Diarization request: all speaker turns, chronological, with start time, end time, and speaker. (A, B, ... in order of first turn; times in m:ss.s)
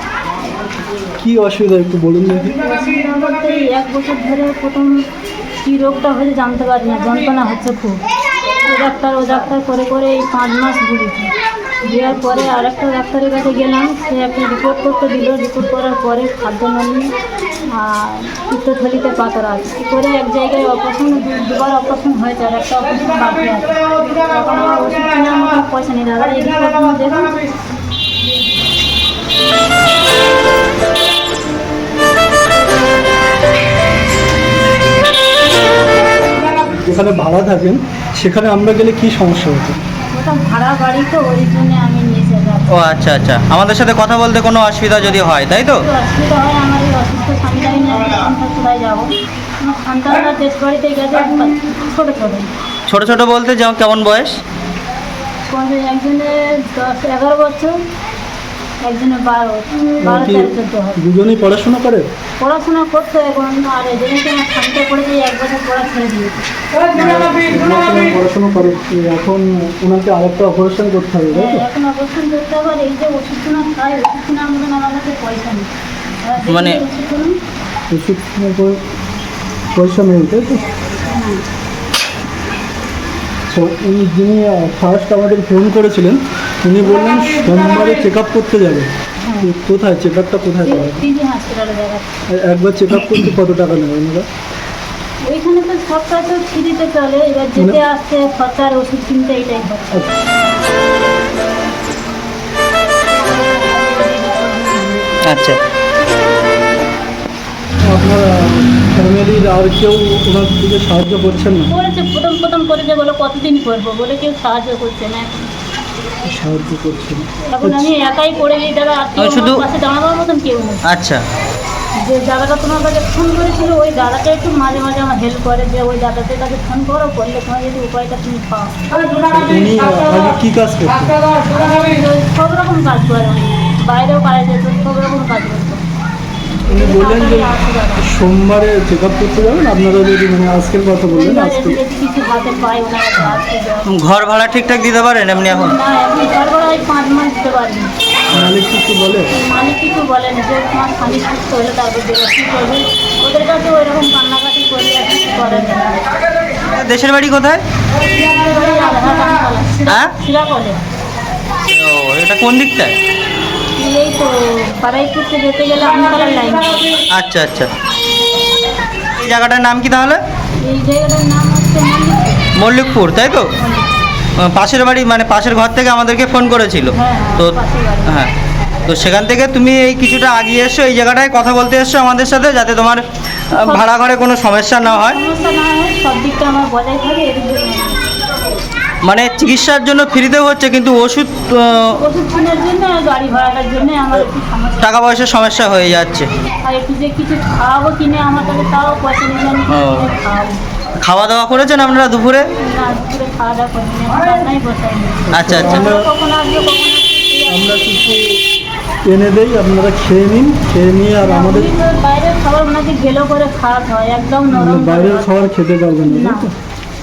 0:01.2-0:02.6 A
0:02.6-0:04.9 B
0:05.6-0:08.0 B
0:08.6-0:11.3 B
0:11.8-0:17.1 B
0:17.7-0:27.4 B
0:36.7-0:39.8 A
0:40.1-0:42.7 B
0:42.7-0:45.8 C
0:45.8-0:52.5 B
0:52.9-0:54.4 C
0:55.5-0:57.7 B
0:58.8-1:01.0 B
1:00.0-1:02.0 A
1:02.4-1:06.4 B
1:06.9-1:11.6 A
1:11.3-1:15.7 B
1:16.2-1:17.4 B
1:16.5-1:16.8 C
1:17.9-1:18.8 A
1:19.7-1:20.6 A
1:21.1-1:21.4 B
1:23.5-1:28.9 A
1:29.2-1:29.5 B
1:29.4-1:31.0 A
1:30.6-1:32.0 B
1:32.3-1:34.2 A
1:35.2-1:40.0 B
1:43.2-1:45.1 B
1:45.2-1:45.6 C
1:47.9-1:51.7 A
1:51.7-1:55.5 B
1:56.2-1:57.9 A
1:57.5-2:00.8 B
1:59.2-1:59.6 C
2:00.9-2:01.2 C
2:02.0-2:08.8 B
2:09.3-2:11.2 A
2:11.5-2:15.8 B
2:16.7-2:21.8 A
2:16.7-2:18.0 B
2:21.1-2:23.9 B
2:23.9-2:25.7 C
2:25.5-2:27.9 B
2:28.3-2:29.3 A
2:29.3-2:36.1 B
2:36.7-2:37.6 C
2:38.1-2:40.8 B
2:41.6-2:43.0 C
2:43.8-2:47.0 B
2:47.1-2:47.7 C
2:49.2-2:50.2 C
2:50.6-2:52.4 B
2:52.6-2:53.5 C
2:53.6-2:54.0 B
2:54.4-2:57.5 C
2:56.9-2:58.2 B
2:58.9-3:03.0 C
3:03.6-3:05.2 C
3:03.6-3:03.9 B
3:04.9-3:08.0 B
3:09.0-3:11.9 C
3:12.0-3:14.9 B
3:14.8-3:16.3 C
3:16.6-3:20.6 B
3:19.7-3:20.1 C
3:21.0-3:22.5 C
3:22.6-3:28.2 B
3:25.3-3:26.1 A
3:25.3-3:25.9 C
3:27.5-3:28.4 A
3:29.1-3:31.7 A
3:31.2-3:35.5 B
3:34.5-3:36.5 A
3:36.1-3:36.5 B